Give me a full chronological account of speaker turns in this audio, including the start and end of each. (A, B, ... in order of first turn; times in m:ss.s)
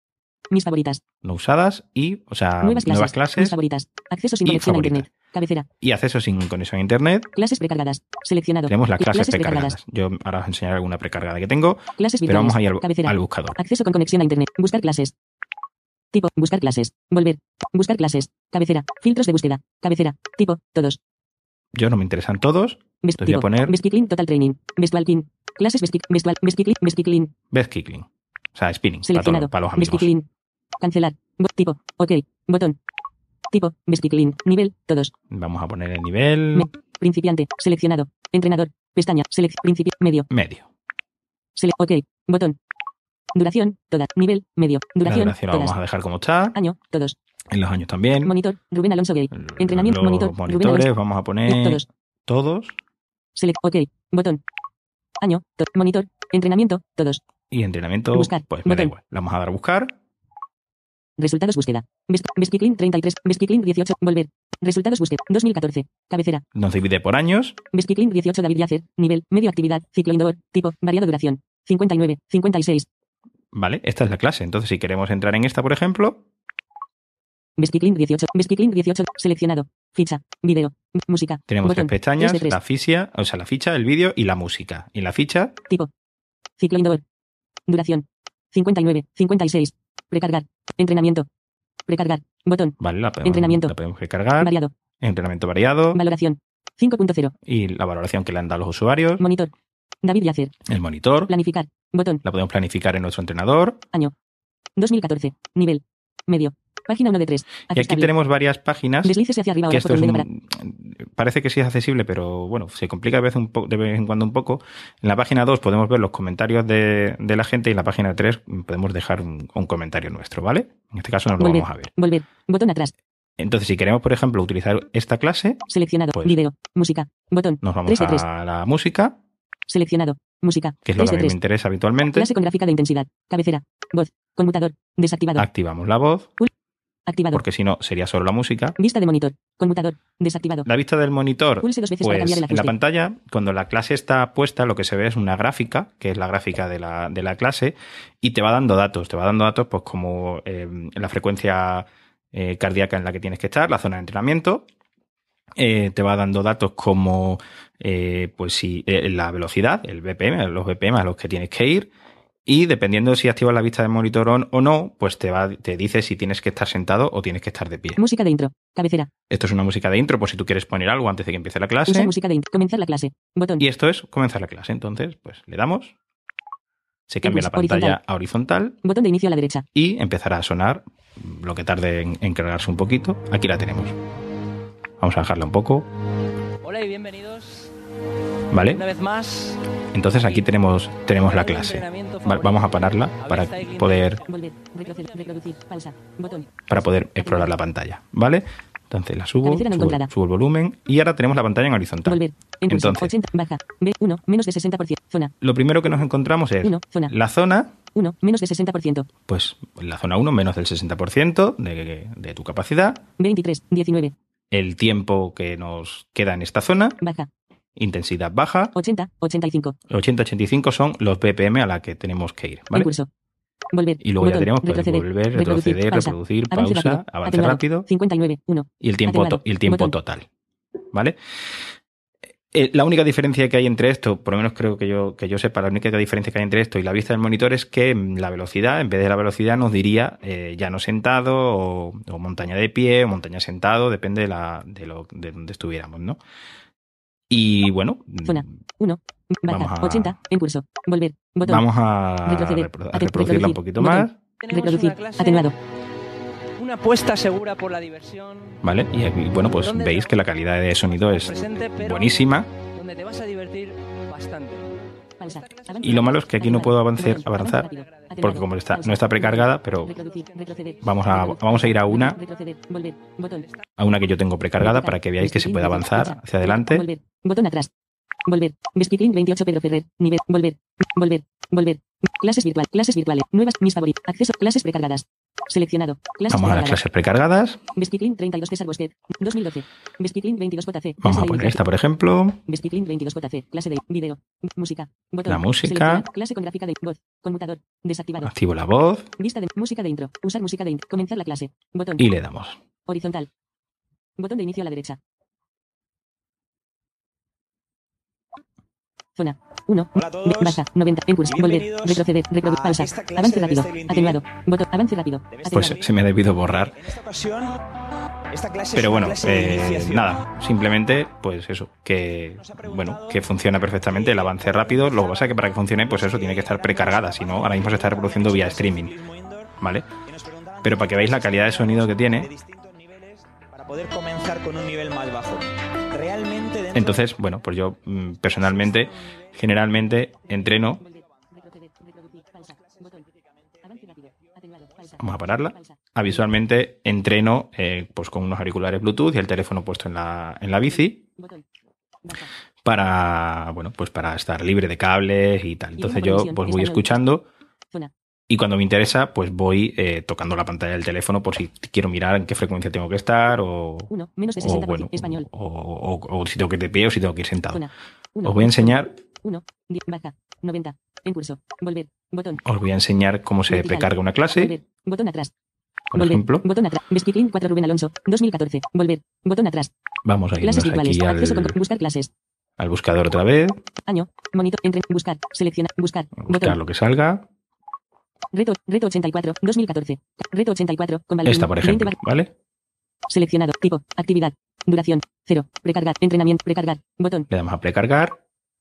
0:00.5-0:01.0 A
0:01.2-0:03.6 B
0:02.6-0:05.7 A
0:04.4-0:05.1 B
0:05.8-0:07.3 B
0:07.3-0:09.8 A
0:08.7-0:13.6 B
0:12.0-0:15.1 A
0:16.1-0:21.0 A
0:21.7-0:23.8 B
0:23.0-0:27.3 A
0:27.5-0:30.1 B
0:29.1-0:30.3 A
0:30.8-0:32.8 A
0:33.5-0:35.1 A
0:35.3-0:36.7 B
0:36.6-0:40.3 A
0:40.3-0:40.7 B
0:41.6-0:42.6 A
0:43.3-0:45.8 A
0:45.0-0:46.6 B
0:46.5-0:47.2 A
0:47.5-0:48.4 B
0:48.2-0:50.9 A
0:49.3-0:52.8 B
0:51.5-0:51.8 A
0:53.4-0:54.4 A
0:55.2-0:57.2 A
0:57.5-1:00.0 B
0:58.1-0:58.9 A
1:01.2-1:06.4 A
1:06.6-1:07.6 B
1:07.7-1:12.9 A
1:13.5-1:16.2 B
1:17.6-1:22.6 A
1:21.5-1:25.6 B
1:26.6-1:27.0 A
1:27.7-1:31.3 A
1:31.9-1:33.7 A
1:32.8-1:36.0 B
1:34.4-1:34.7 A
1:35.9-1:37.4 A
1:37.5-1:39.2 B
1:39.2-1:39.5 A
1:40.0-1:40.6 A
1:40.7-1:41.3 B
1:41.3-1:42.2 A
1:42.2-1:43.8 B
1:44.8-1:48.1 A
1:47.7-1:49.2 B
1:49.0-1:50.2 A
1:49.7-2:01.9 B
2:01.4-2:02.9 A
2:03.4-2:06.4 B
2:05.7-2:08.2 A
2:07.6-2:09.2 B
2:09.7-2:11.4 A
2:10.9-2:12.3 B
2:12.1-2:15.5 A
2:15.4-2:16.4 B
2:17.1-2:17.4 A
2:17.3-2:18.8 B
2:18.8-2:20.7 A
2:20.6-2:34.6 B
2:21.6-2:22.8 A
2:35.6-2:41.9 B
2:42.5-2:48.0 B
2:48.0-2:49.1 A
2:49.3-2:52.2 B
2:51.9-2:53.6 A
2:53.6-2:56.0 B
2:57.1-2:58.8 B
2:57.2-2:58.0 A
2:58.8-2:59.7 A
2:59.8-3:04.0 B
3:05.0-3:05.9 B
3:06.6-3:07.7 C
3:08.5-3:08.8 B
3:08.7-3:10.5 C
3:09.9-3:14.2 B
3:11.1-3:15.6 C
3:14.2-3:16.5 A
3:16.7-3:23.2 B
3:19.4-3:20.1 A
3:22.1-3:25.3 A
3:25.4-3:27.8 B
3:26.6-3:27.1 A
3:27.9-3:29.1 A
3:29.3-3:33.0 B
3:33.2-3:34.2 A
3:34.5-3:37.0 B
3:37.0-3:37.3 A
3:37.8-3:38.8 B
3:38.7-3:39.8 A
3:39.9-3:42.9 B
3:42.7-3:43.1 A
3:43.7-3:50.0 A
3:44.0-3:47.9 B
3:48.8-3:50.3 B
3:50.9-3:51.2 B
3:52.5-4:06.2 B
4:07.3-4:08.5 B
4:08.2-4:11.6 A
4:09.5-4:10.2 B
4:11.4-4:14.2 B
4:12.2-4:15.6 A
4:14.4-4:15.5 C
4:16.6-4:18.6 C
4:18.6-4:22.5 B
4:19.6-4:20.2 C
4:21.1-4:24.7 C
4:25.2-4:33.5 A
4:25.2-4:26.3 C
4:25.8-4:27.7 B
4:27.6-4:28.3 C
4:28.2-4:30.0 B
4:29.8-4:31.0 C
4:30.8-4:32.2 B
4:33.3-4:33.6 C
4:33.8-4:36.9 B
4:34.6-4:37.7 A
4:38.2-4:46.8 A
4:46.3-4:47.6 B
4:47.7-4:51.6 A
4:51.0-4:52.4 B
4:52.5-4:58.3 A
4:55.2-4:56.1 B
4:58.2-4:59.1 B
4:59.2-5:02.0 A
5:02.0-5:02.6 B
5:02.9-5:03.3 A
5:04.2-5:05.0 A
5:09.2-5:15.8 A
5:10.0-5:10.6 D
5:11.3-5:14.2 D
5:15.3-5:15.9 D
5:15.5-5:16.8 B
5:16.6-5:17.6 D
5:18.3-5:20.0 D
5:18.7-5:29.0 B
5:22.4-5:23.2 D
5:23.8-5:29.5 D
5:29.6-5:29.9 B
5:30.1-5:37.0 D
5:30.6-5:32.3 B
5:36.7-5:40.8 B
5:38.5-5:39.2 D
5:40.6-5:43.1 A
5:42.7-5:43.7 D
5:43.6-5:45.8 A
5:45.0-5:51.0 B
5:51.2-5:51.4 A
5:52.6-5:57.3 B
5:55.8-5:57.0 A
5:58.3-6:07.7 B
6:03.9-6:05.3 A
6:07.5-6:12.4 A
6:08.2-6:09.0 B
6:12.4-6:14.6 B
6:13.5-6:15.3 A
6:15.9-6:16.5 B
6:16.0-6:19.7 A
6:20.0-6:21.6 B
6:20.4-6:22.1 A
6:22.6-6:23.6 B
6:23.8-6:26.6 A
6:26.2-6:27.3 B
6:28.3-6:32.0 A
6:31.2-6:32.3 B
6:33.1-6:37.3 A
6:37.3-6:38.2 B